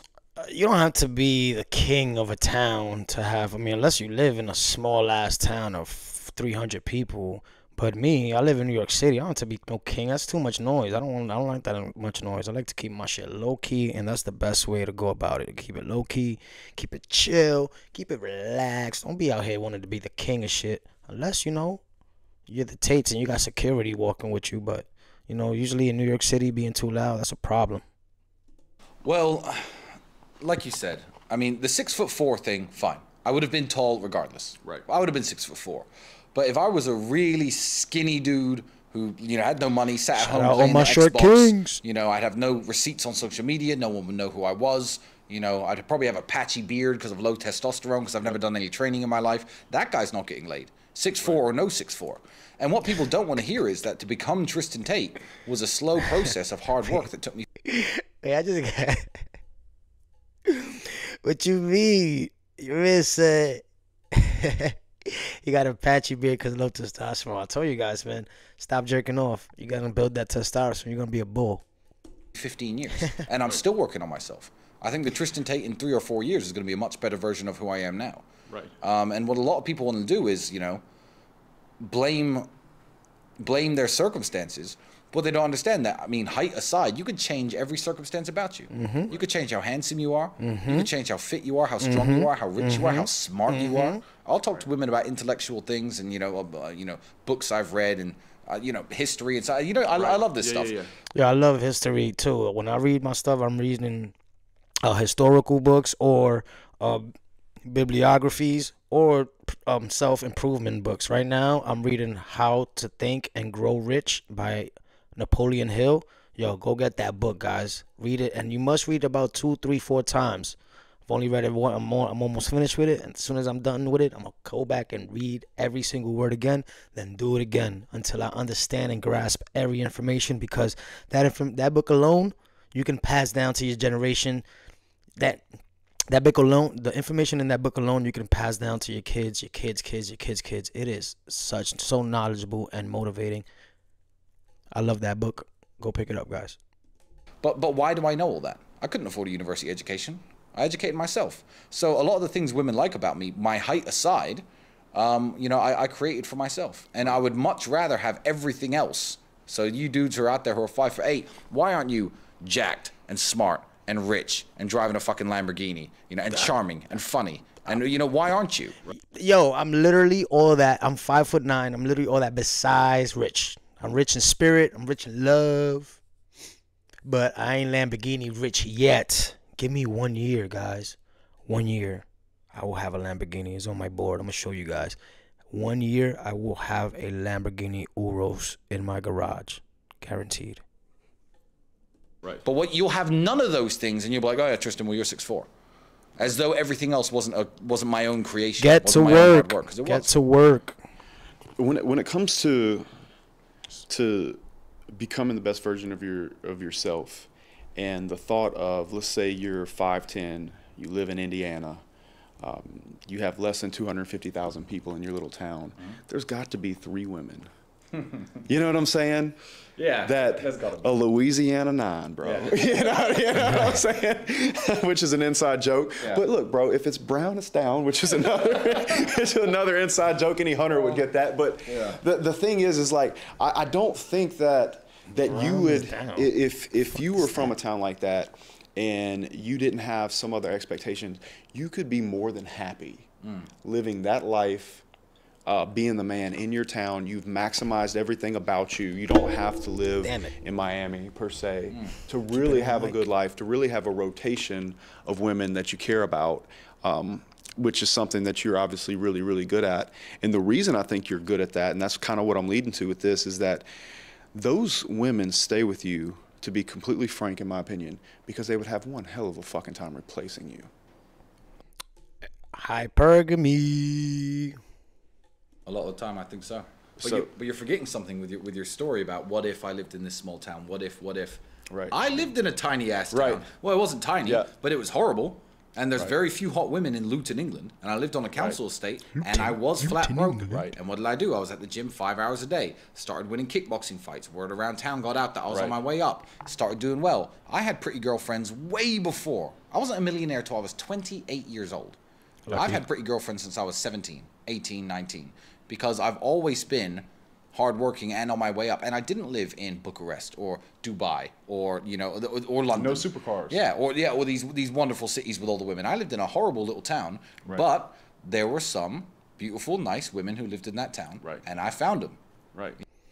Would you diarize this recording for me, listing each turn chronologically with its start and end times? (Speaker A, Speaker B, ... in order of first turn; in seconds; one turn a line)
Speaker A: 0.4-21.8
Speaker A: 22.5-27.8
Speaker B: 29.0-57.5
Speaker A: 40.1-41.8
Speaker A: 57.6-59.1
Speaker A: 60.5-71.6
Speaker B: 72.3-78.2
Speaker B: 78.8-80.8
Speaker B: 81.8-82.5
Speaker B: 83.4-100.8
Speaker A: 88.7-89.1
Speaker A: 90.4-90.9
Speaker A: 91.8-94.0
Speaker C: 99.9-100.9
Speaker A: 101.1-104.1
Speaker A: 104.8-107.1
Speaker A: 107.6-120.5
Speaker A: 121.1-134.4
Speaker A: 135.2-135.4
Speaker A: 136.1-143.4
Speaker A: 144.7-146.6
Speaker B: 147.4-168.8
Speaker A: 169.1-176.0
Speaker A: 177.0-185.0
Speaker A: 185.5-190.6
Speaker B: 192.4-195.5
Speaker B: 196.2-200.1
Speaker A: 198.6-200.8
Speaker C: 201.6-202.9
Speaker C: 203.9-204.4
Speaker C: 204.9-211.8
Speaker C: 212.4-217.5
Speaker B: 217.9-218.4
Speaker C: 218.4-219.4
Speaker B: 219.8-220.9
Speaker C: 220.0-243.1
Speaker B: 222.2-222.9
Speaker B: 231.7-232.0
Speaker A: 235.1-236.3
Speaker B: 243.2-243.5
Speaker C: 243.6-244.8
Speaker C: 245.4-263.6
Speaker A: 250.0-250.3
Speaker A: 252.4-253.0
Speaker C: 264.3-270.7
Speaker A: 272.5-274.6
Speaker B: 275.6-302.0
Speaker C: 277.0-277.3
Speaker C: 281.7-282.1
Speaker C: 283.1-283.4
Speaker C: 284.2-284.5
Speaker A: 289.2-290.6
Speaker C: 290.5-290.7
Speaker C: 295.5-295.8
Speaker A: 302.5-302.8
Speaker B: 302.5-322.2
Speaker C: 312.7-313.6
Speaker C: 322.5-322.8